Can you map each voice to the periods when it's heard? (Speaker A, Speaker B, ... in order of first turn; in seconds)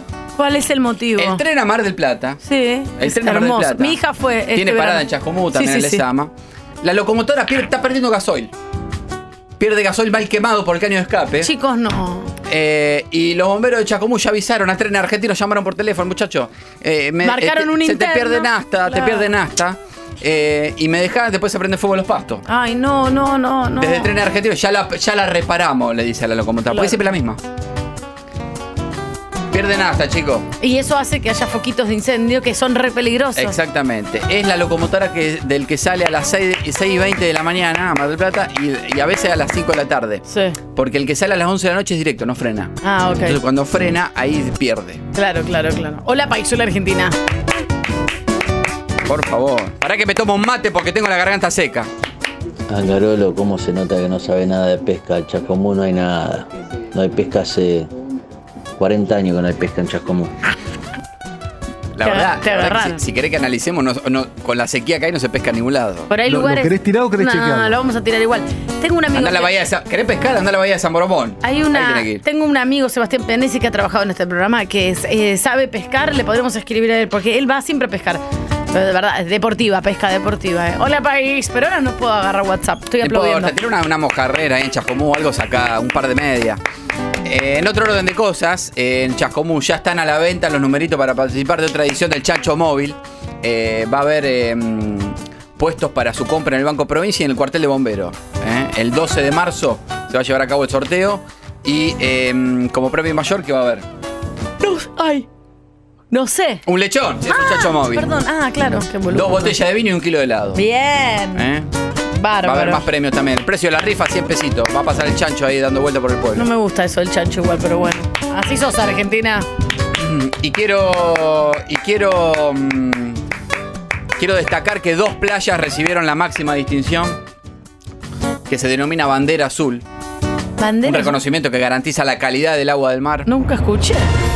Speaker A: 0.4-1.4, 2.4-5.0, 5.5-6.0, 11.4-12.3, 17.2-19.3, 22.5-24.1, 26.7-27.1, 30.6-33.6, 40.3-40.6, 42.8-43.4, 45.1-47.1, 62.0-63.0, 66.1-69.5, 71.4-83.5, 104.6-105.3, 106.1-106.6, 107.3-109.5, 110.5-111.5, 112.2-112.9, 116.3-119.5, 130.6-131.1, 133.3-134.1
Speaker B: 1.2-2.4, 3.0-4.0, 4.5-8.5, 9.6-11.5, 12.5-22.4, 23.8-27.4, 29.5-30.5, 33.4-45.0, 49.0-51.9, 62.0-66.1, 69.1-72.2, 83.0-86.6, 87.3-103.9, 106.7-108.1, 108.7-110.6, 111.3-111.7, 112.4-116.5, 120.0-123.2, 124.2-127.2, 128.5-129.8, 130.8-133.3
Speaker C: 52.7-57.9, 58.8-60.3